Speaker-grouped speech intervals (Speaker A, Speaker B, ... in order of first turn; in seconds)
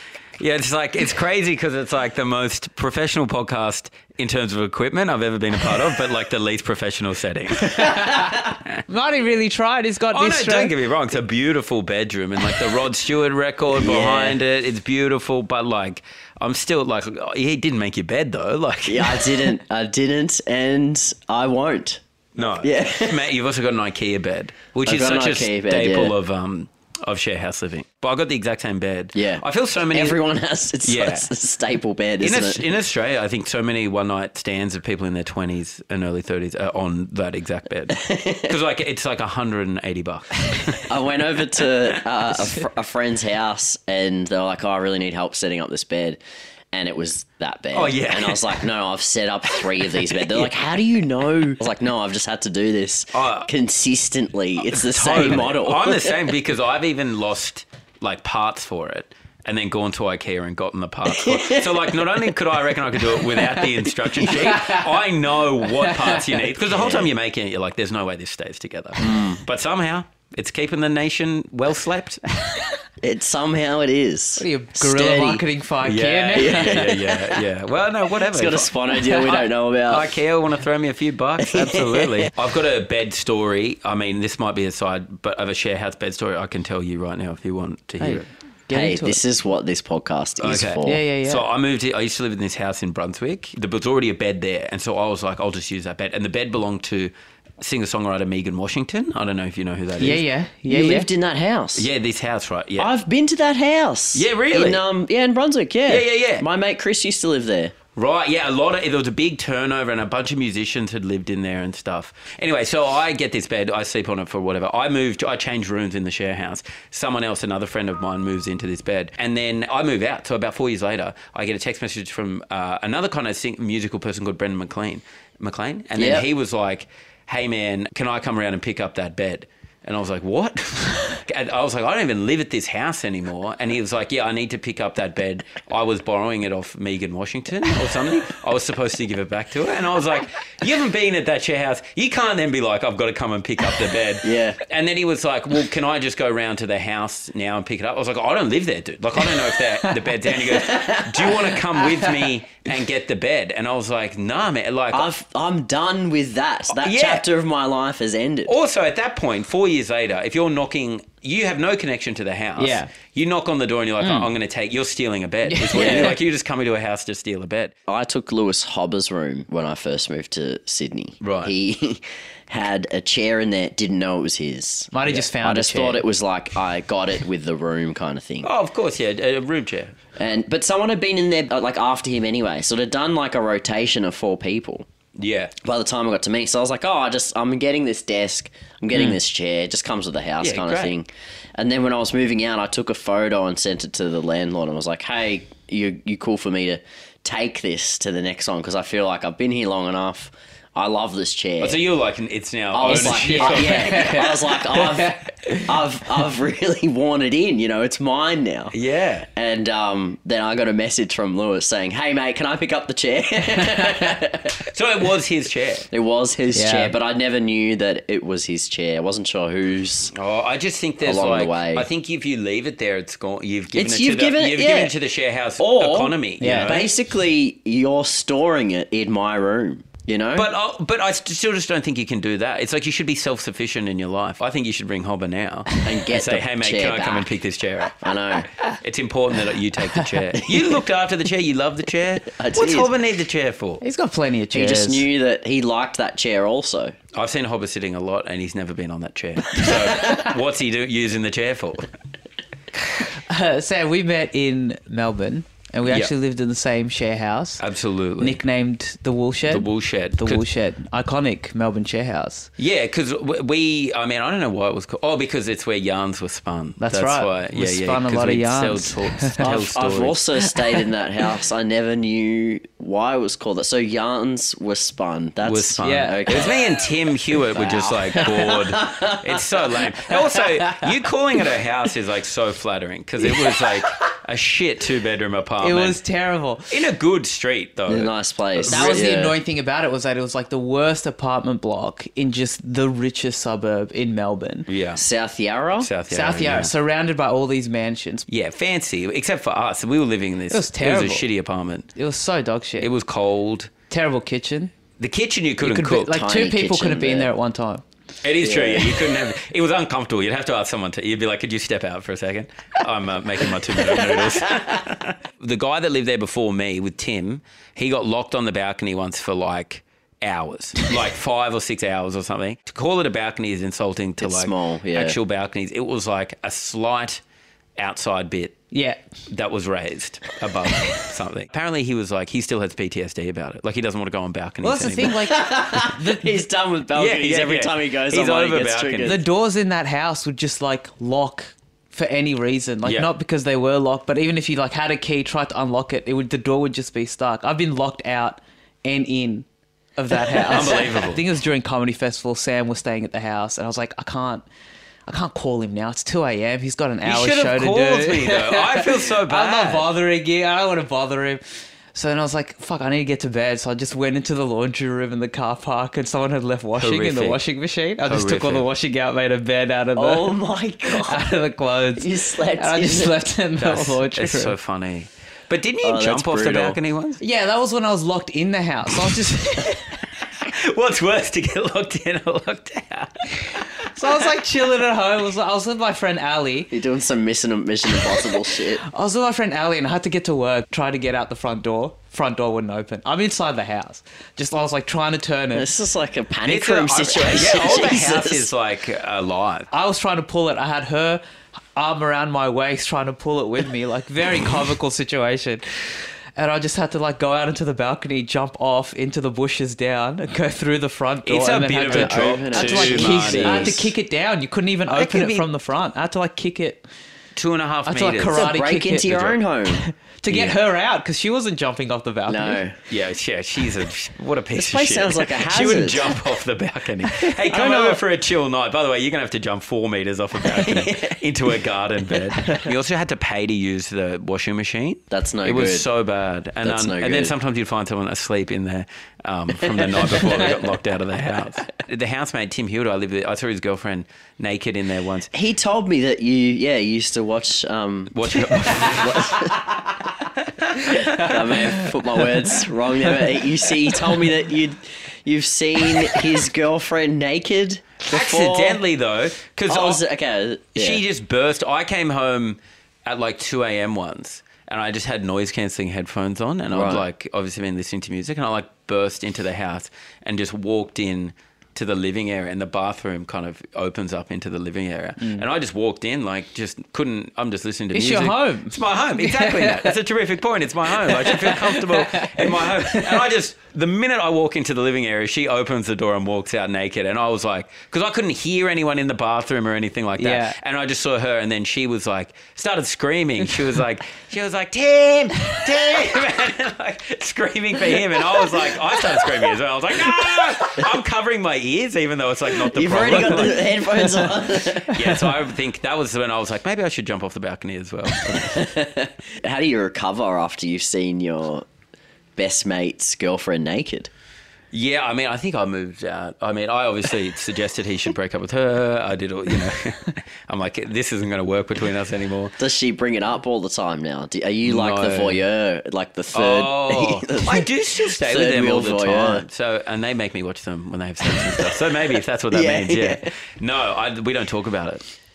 Speaker A: 0.4-8.8, 10.1-19.6, 22.4-30.2, 30.8-31.3, 32.2-40.9, 47.7-48.6, 49.9-50.5, 53.1-53.5, 54.6-72.2, 75.8-88.3, 90.4-100.2, 101.8-102.9, 104.1-104.8, 105.9-106.4, 108.0-155.1, 156.7-157.3, 158.5-167.7, 171.2-171.5, 178.4-180.0, 185.2-185.5, 190.4-190.9, 201.6-204.3, 208.7-209.3, 214.7-215.9, 220.1-226.9, 230.3-238.0, 238.8-243.8, 247.1-251.9, 255.9-256.1, 257.6-258.4, 259.5-260.4, 262.6-270.2, 275.4-286.0, 286.7-289.1, 294.7-295.0, 295.8-296.7, 298.3-301.9, 302.8-303.7, 305.0-306.2, 308.2-327.2, 327.8-328.6, 329.3-335.2, 336.9-339.2, 342.8-343.1, 350.4-351.2, 357.0-359.9, 366.8-367.4, 368.1-368.7, 373.6-377.2, 380.4-383.9, 396.4-399.7, 411.2-413.9, 414.9-415.5, 417.4-418.5, 420.3-420.6, 422.9-445.3, 448.1-449.5, 458.1-460.0, 460.8-508.6, 514.7-522.6, 524.6-525.4, 526.3-535.0
Speaker B: 7.6-10.7, 65.8-66.5, 74.4-77.0, 88.0-89.2, 90.8-91.4, 100.0-101.1, 149.6-150.1, 151.9-152.2, 162.6-162.9, 164.0-164.3, 165.5-166.2, 174.9-176.0, 202.9-205.2, 216.5-216.9, 226.4-226.8, 243.8-245.1, 252.9-257.6, 258.2-262.5, 266.8-269.4, 275.8-276.2, 285.6-286.8, 288.7-294.7, 296.1-298.2, 300.5-301.3, 302.0-302.9, 303.9-304.7, 305.6-307.8, 328.7-329.0, 334.6-336.3, 339.0-349.5, 350.0-354.4, 355.1-361.4, 361.9-374.6, 377.2-380.0, 383.8-386.7, 388.8-395.7, 399.7-401.2, 401.8-405.6, 406.4-416.9, 417.9-422.6, 475.2-475.4, 477.9-480.0, 480.9-483.3, 490.2-490.6
Speaker C: 13.8-14.4, 18.9-22.0, 22.6-23.2, 24.9-26.1, 29.1-32.6, 37.9-38.5, 40.9-46.2, 46.7-56.1, 61.1-62.0, 63.3-64.5, 66.7-67.1, 69.0-69.4, 73.0-75.4, 76.4-77.4, 78.3-80.1, 81.4-82.3, 88.7-91.0, 100.7-101.9, 102.8-107.8, 126.0-126.3, 144.2-144.6, 150.5-151.6, 154.9-158.5, 165.7-166.1, 167.9-178.5, 180.2-184.9, 185.6-201.8, 202.7-208.7, 209.3-214.6, 215.9-220.1, 221.0-221.9, 223.7-224.9, 225.6-230.5, 235.8-237.3, 238.0-238.5, 242.3-242.9, 244.5-246.9, 269.4-276.6, 277.5-279.4, 287.9-289.4, 294.9-295.9, 306.1-307.3, 308.4-309.0, 324.2-325.2, 335.1-339.2, 370.0-371.2, 372.0-373.2, 375.8-376.8, 386.7-388.8, 395.6-398.5, 411.9-413.9, 418.3-419.8, 422.3-422.8, 424.6-426.2, 427.2-428.0, 430.4-431.2, 435.1-435.9, 436.6-437.3, 439.8-440.7, 445.3-449.7, 450.9-458.8, 459.7-461.0, 466.7-467.0, 502.7-505.0, 508.4-511.7, 512.4-514.1, 522.6-529.5, 531.2-531.8, 532.5-533.3